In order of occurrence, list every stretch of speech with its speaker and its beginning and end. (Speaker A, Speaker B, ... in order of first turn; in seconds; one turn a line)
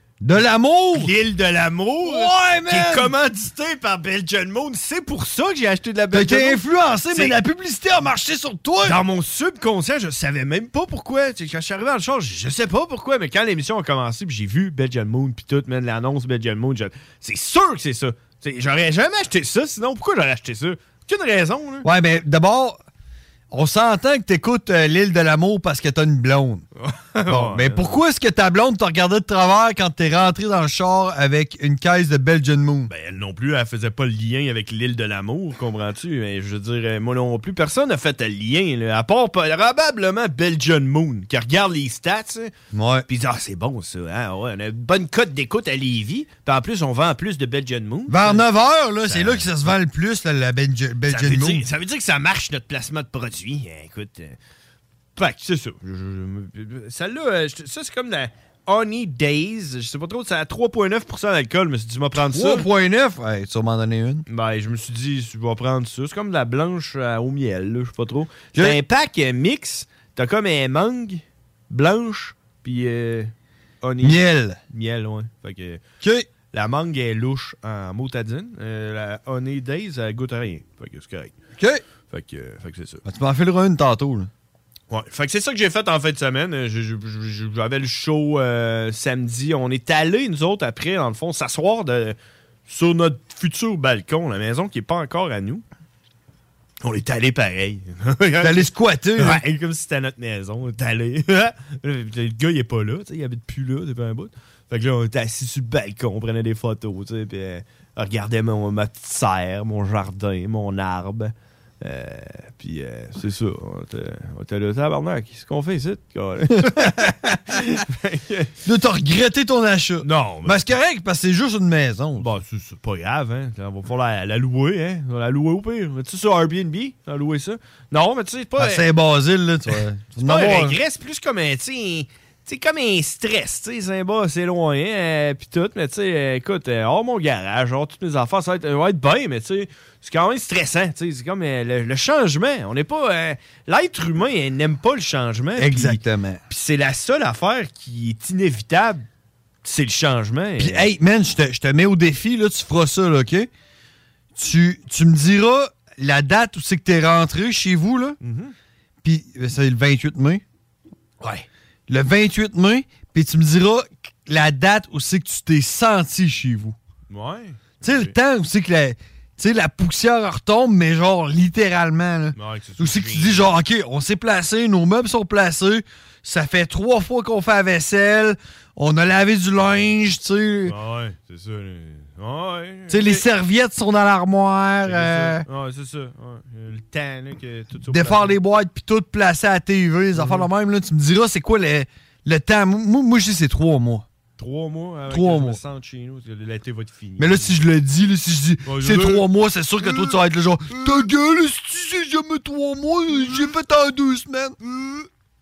Speaker A: 0.2-1.1
Speaker B: 0.9-7.3
Speaker A: 2.0-3.1
Speaker A: 6.1-9.0
Speaker B: 8.8-21.9
Speaker A: 21.8-22.8
Speaker A: 23.5-26.6
Speaker B: 26.8-27.9
Speaker A: 27.3-32.9
Speaker B: 32.9-42.5
Speaker A: 42.7-43.0
Speaker B: 43.1-48.5
Speaker A: 48.1-51.6
Speaker B: 49.0-49.5
Speaker B: 51.1-54.4
Speaker B: 55.1-62.7
Speaker A: 62.3-64.2
Speaker B: 64.3-75.8
Speaker A: 74.0-74.6
Speaker B: 76.5-81.3
Speaker B: 82.1-83.0
Speaker A: 83.0-84.3
Speaker B: 84.9-92.1
Speaker B: 92.7-95.6
Speaker B: 96.8-118.5
Speaker A: 98.4-99.4
Speaker A: 116.6-117.5
Speaker A: 118.6-122.3
Speaker B: 120.0-120.8
Speaker B: 122.2-128.9
Speaker A: 128.6-130.8
Speaker B: 129.7-149.0
Speaker A: 145.6-146.4
Speaker B: 149.6-150.9
Speaker A: 150.6-153.5
Speaker A: 154.3-158.2
Speaker B: 158.2-158.5
Speaker A: 159.0-160.4
Speaker A: 161.9-166.8
Speaker B: 167.1-168.1
Speaker A: 167.8-180.8
Speaker B: 172.4-173.5
Speaker B: 180.7-183.2
Speaker A: 182.9-185.4
Speaker B: 184.8-188.4
Speaker A: 187.9-194.1
Speaker B: 190.1-190.5
Speaker B: 194.4-197.6
Speaker A: 195.1-195.6
Speaker A: 197.2-204.6
Speaker B: 198.7-199.3
Speaker B: 199.8-200.2
Speaker B: 204.7-205.0